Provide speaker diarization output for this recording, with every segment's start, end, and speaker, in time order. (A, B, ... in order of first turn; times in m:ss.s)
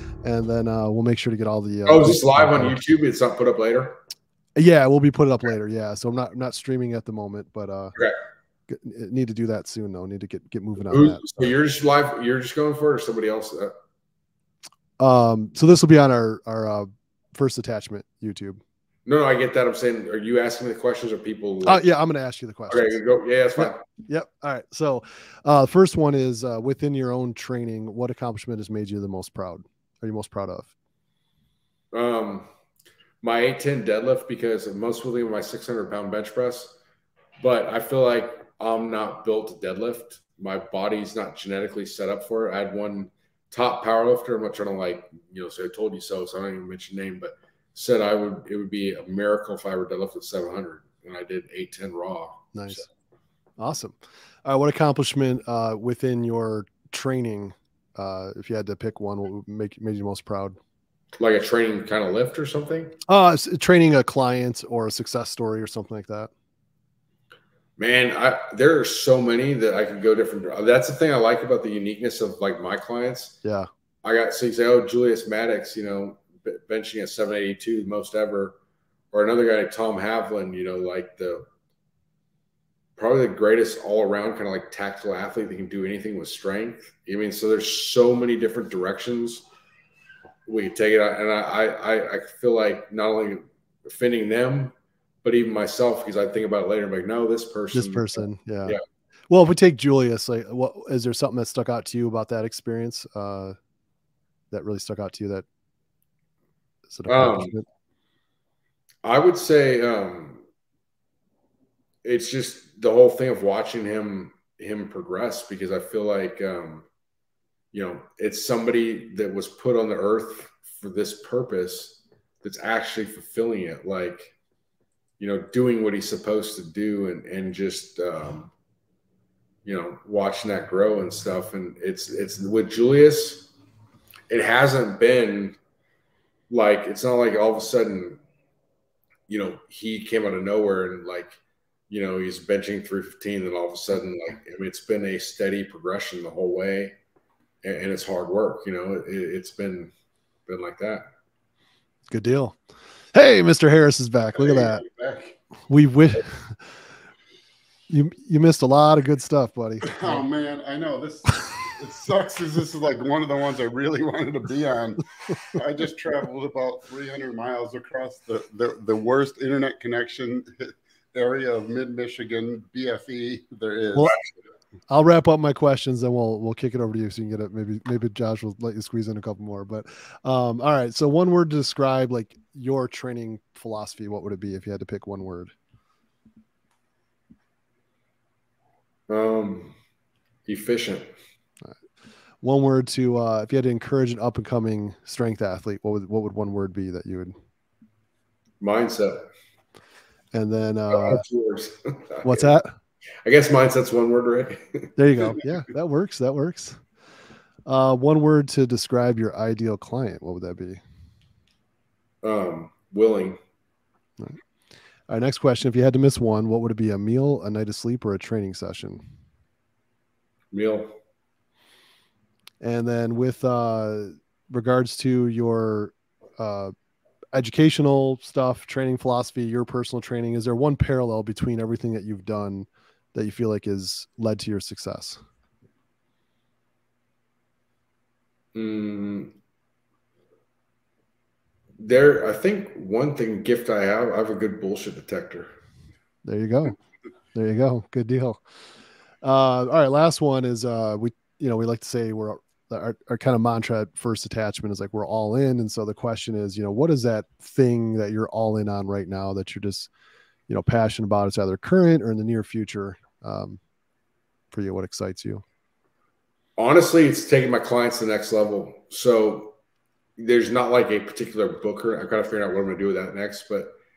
0:00.2-0:02.9 A
0:01.9-0:04.0 B
0:04.6-0:08.0 A
0:08.7-0:11.3 A
0:10.9-0:13.7 B
0:15.0-0:18.6 A
0:19.1-0:21.9 B
0:21.6-0:23.0 A
0:22.7-0:23.9 B
0:23.6-0:30.7 A
0:31.9-0:32.5 B
0:33.2-0:36.8 B
0:37.4-0:52.9 B
0:52.5-0:52.8 A
0:53.6-1:00.6 A
1:01.2-1:03.0 B
1:03.1-1:06.3 A
1:07.8-1:13.4 B
1:14.0-1:18.6 B
1:19.1-1:21.5 B
1:23.0-1:29.5 B
1:30.5-1:38.8 B
1:37.7-1:43.6 A
1:44.5-1:45.4 A
1:46.9-1:47.7 A
1:47.1-1:47.5 B
1:49.0-1:50.4 B
1:52.0-1:56.9 B
1:57.7-2:04.3 B
2:05.2-2:08.5 B
2:09.6-2:13.5 B
2:14.3-2:15.6 B
2:16.5-2:18.2 B
2:19.3-2:21.4 B
2:21.9-2:27.0 B
2:27.6-2:29.9 B
2:30.5-2:31.1 B
2:32.1-2:32.6 A
2:33.1-2:34.8 A
2:34.4-2:35.4 C
2:35.7-2:36.6 A
2:37.9-2:40.2 A
2:39.8-2:54.2 C
2:54.9-3:05.5 A
3:09.1-3:09.8 B
3:10.5-3:11.1 B
3:12.4-3:17.3 A
3:18.6-3:19.3 B
3:20.3-3:21.2 A
3:20.9-3:22.5 B
3:22.2-3:22.7 A
3:23.2-3:24.9 B
3:25.0-3:26.8 A
3:27.7-3:30.8 A
3:32.2-3:33.4 B
3:35.1-3:39.0 A
3:40.5-3:40.9 B
3:42.6-3:46.7 A
3:47.3-3:55.2 A
3:58.5-3:59.3 B
4:01.8-4:05.5 B
4:06.2-4:06.8 A
4:07.3-4:08.4 A
4:09.2-4:19.9 A
4:20.5-4:23.6 A
4:24.5-4:25.4 A
4:26.6-4:29.6 B
4:30.2-4:33.8 B